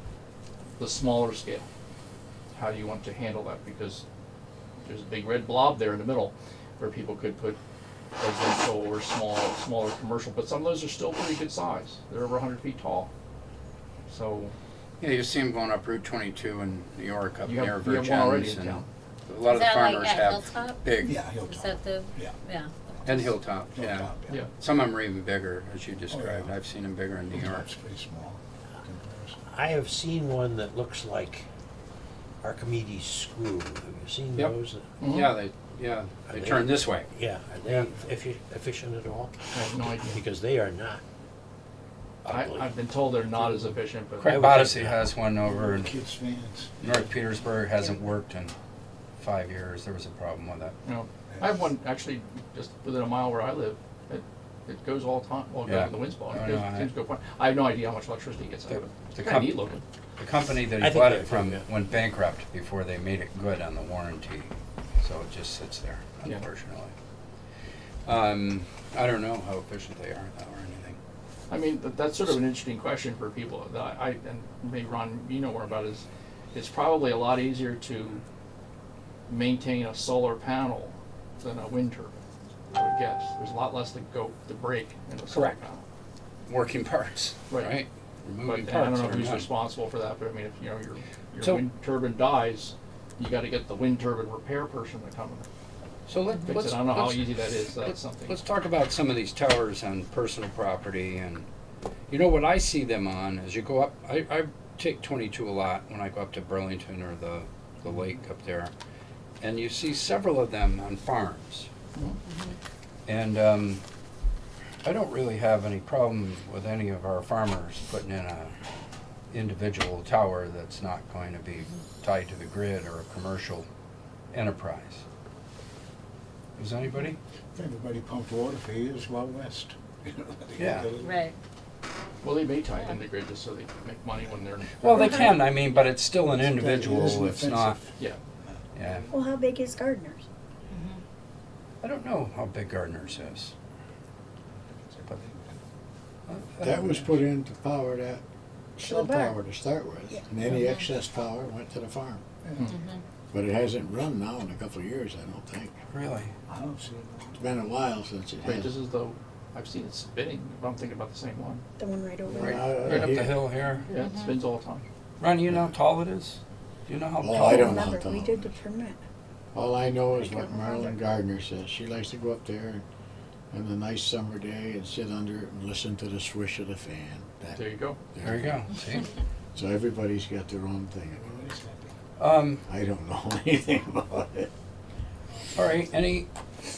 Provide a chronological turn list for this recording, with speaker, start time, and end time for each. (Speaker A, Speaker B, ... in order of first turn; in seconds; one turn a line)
Speaker A: 0.8-1.7
Speaker A: 2.5-4.0
Speaker A: 4.8-7.6
Speaker A: 8.2-13.1
Speaker A: 14.1-14.5
Speaker B: 15.0-21.2
Speaker A: 17.4-18.9
Speaker C: 19.4-23.3
Speaker D: 21.0-22.3
Speaker B: 23.1-27.7
Speaker D: 23.7-24.4
Speaker D: 26.1-26.5
Speaker D: 27.3-29.4
Speaker E: 29.4-31.5
Speaker E: 32.4-34.9
Speaker B: 34.4-37.1
Speaker A: 35.0-35.4
Speaker E: 36.3-41.0
Speaker A: 39.5-40.2
Speaker E: 42.2-42.8
Speaker A: 42.3-44.3
Speaker B: 44.2-45.9
Speaker E: 44.2-45.1
Speaker D: 45.4-46.9
Speaker B: 46.8-48.5
Speaker B: 49.2-50.7
Speaker A: 50.9-59.8
Speaker D: 51.3-51.6
Speaker B: 55.6-56.9
Speaker B: 58.7-66.9
Speaker E: 60.7-61.7
Speaker B: 68.1-71.0
Speaker A: 71.5-78.2
Speaker A: 79.3-82.2
Speaker A: 82.7-85.8
Speaker B: 85.3-85.6
Speaker B: 86.5-89.5
Speaker A: 87.5-87.8
Speaker A: 88.4-95.5
Speaker B: 91.4-91.7
Speaker B: 96.1-101.5
Speaker A: 96.5-98.4
Speaker B: 102.1-108.7
Speaker B: 109.4-111.7
Speaker A: 112.0-112.2
Speaker C: 112.3-112.6
Speaker B: 113.1-113.8
Speaker B: 114.8-118.5
Speaker B: 119.3-123.7
Speaker B: 124.3-125.0
Speaker B: 126.6-127.2
Speaker D: 127.5-131.2
Speaker B: 130.6-130.9
Speaker C: 131.0-131.4
Speaker A: 132.2-135.3
Speaker B: 134.8-137.8
Speaker C: 135.0-135.3
Speaker D: 136.2-137.9
Speaker D: 138.4-139.2
Speaker B: 138.8-139.1
Speaker F: 139.1-140.2
Speaker C: 140.7-141.0
Speaker B: 141.8-143.5
Speaker D: 144.7-145.6
Speaker B: 146.3-147.1
Speaker G: 146.6-148.2
Speaker F: 148.8-149.4
Speaker G: 148.8-152.2
Speaker C: 150.5-150.9
Speaker D: 152.4-152.8
Speaker C: 152.7-153.0
Speaker G: 153.3-155.8
Speaker B: 155.9-156.3
Speaker D: 156.5-157.4
Speaker G: 157.4-158.7
Speaker A: 158.4-161.7
Speaker F: 161.8-163.0
Speaker G: 162.3-163.4
Speaker B: 162.8-163.9
Speaker A: 163.9-164.9
Speaker C: 164.0-164.3
Speaker B: 165.2-167.8
Speaker G: 167.2-168.5
Speaker F: 167.4-169.0
Speaker G: 169.5-172.8
Speaker F: 170.2-170.9
Speaker G: 173.5-178.7
Speaker A: 177.6-178.1
Speaker B: 178.2-179.1
Speaker G: 179.6-181.3
Speaker D: 181.1-181.9
Speaker B: 182.2-182.6
Speaker G: 182.7-184.5
Speaker B: 185.6-186.3